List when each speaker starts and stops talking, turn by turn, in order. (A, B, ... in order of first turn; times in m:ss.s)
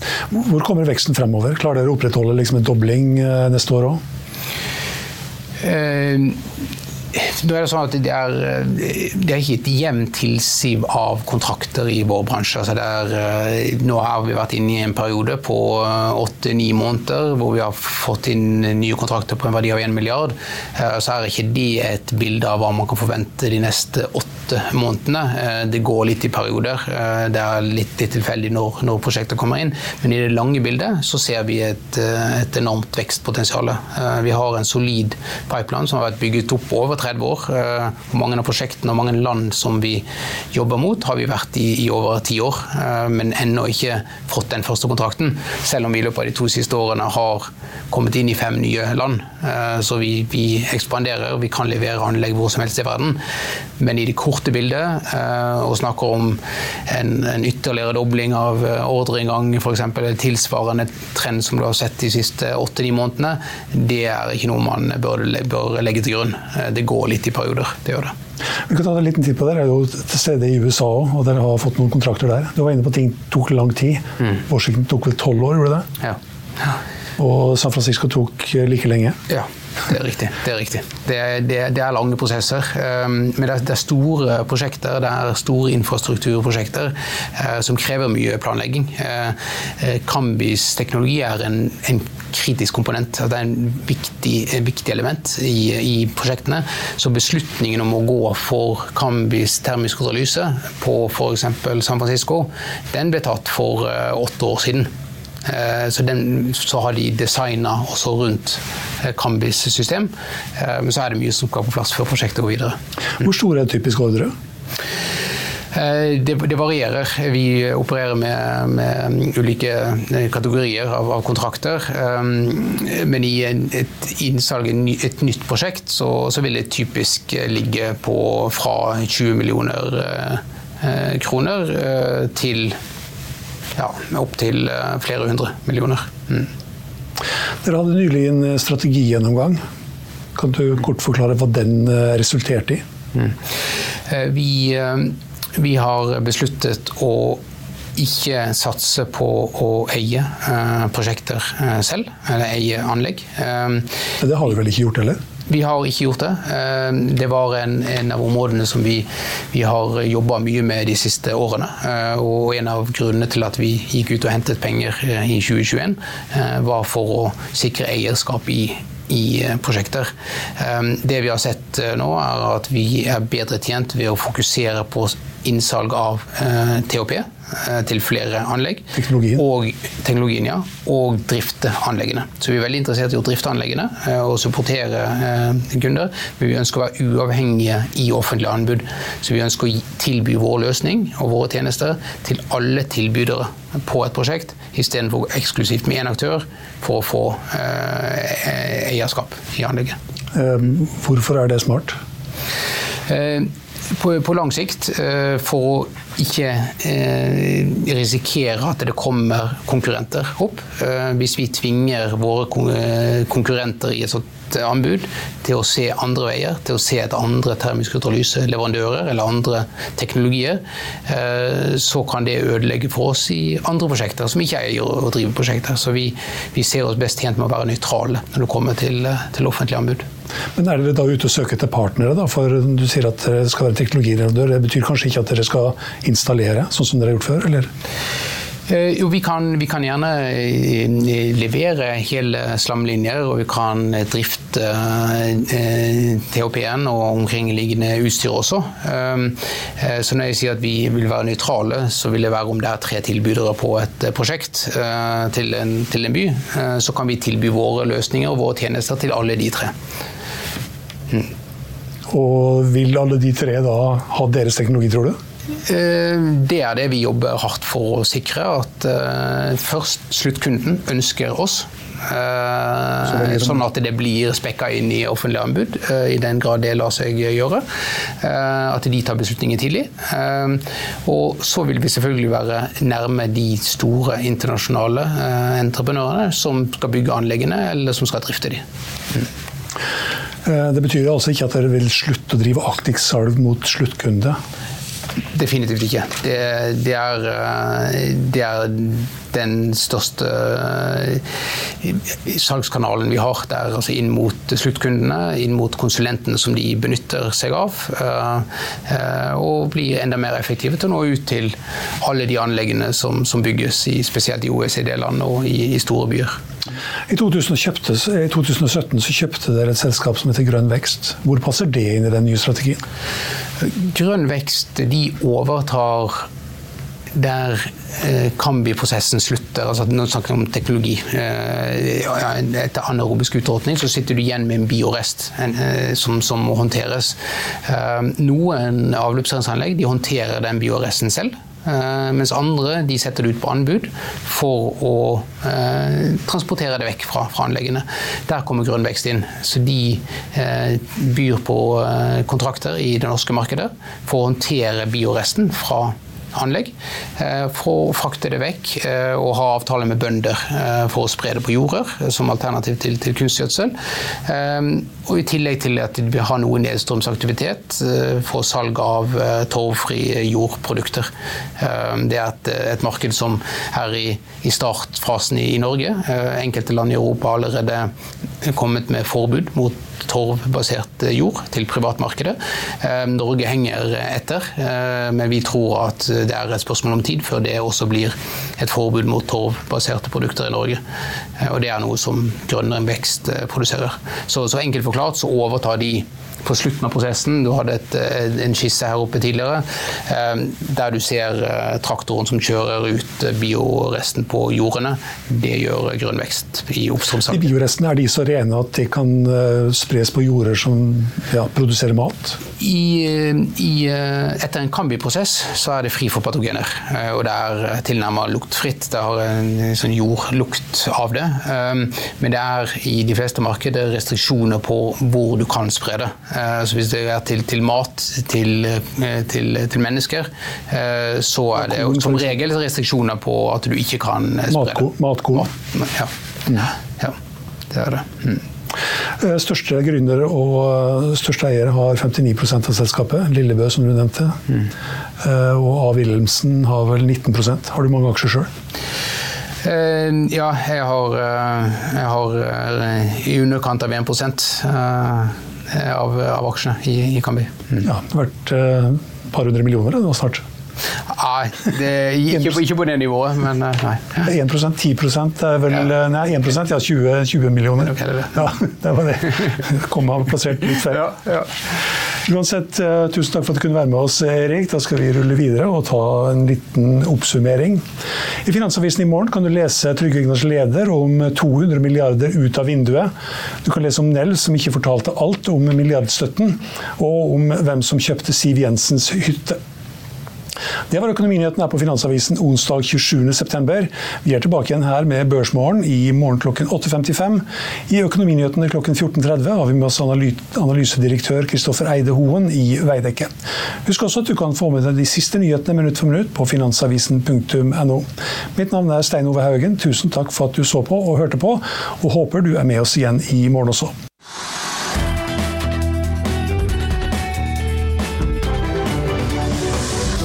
0:00.3-0:04.0 A
0:05.6-0:06.4 B
0:07.1-0:53.2 B
0:53.8-1:08.1 B
1:08.7-1:15.9 A
1:16.0-1:16.8 B
1:17.2-1:19.2 A
1:19.3-1:44.9 B
1:45.4-1:52.8 B
1:53.2-1:54.3 A
1:55.7-2:12.8 B
2:13.8-2:16.5 B
2:17.6-2:19.6 A
2:20.4-2:22.8 A
2:24.1-2:27.4 B
2:28.0-2:33.9 B
2:34.2-2:35.2 A
2:35.5-3:20.0 B
2:58.9-2:59.4 A
3:20.3-3:22.0 A
3:23.1-3:50.0 B
3:50.6-3:57.7 A
3:58.7-4:19.7 B
4:22.1-4:25.2 A
4:25.6-4:37.6 B
4:33.1-4:33.6 A
4:38.2-4:48.6 B
4:50.4-4:54.4 A
4:55.3-5:01.2 B
5:01.8-5:16.4 B
5:17.1-5:22.8 A
5:23.6-5:26.3 B
5:27.1-6:03.7 B
6:04.2-6:17.9 B
6:18.4-6:30.8 B
6:31.4-6:47.5 B
6:47.3-6:52.4 A
6:52.6-7:17.2 B
7:11.6-7:12.4 A
7:14.5-7:15.5 A
7:17.7-7:18.4 B
7:19.2-7:24.4 A
7:25.2-7:28.5 A
7:29.6-7:37.9 B
7:37.8-7:40.4 A
7:41.1-7:44.3 B
7:44.2-7:51.3 A
7:48.0-7:48.3 B
7:52.2-7:57.8 A
7:58.4-8:03.1 A
8:03.6-8:09.6 A
8:10.9-8:23.3 A
8:23.8-8:33.9 A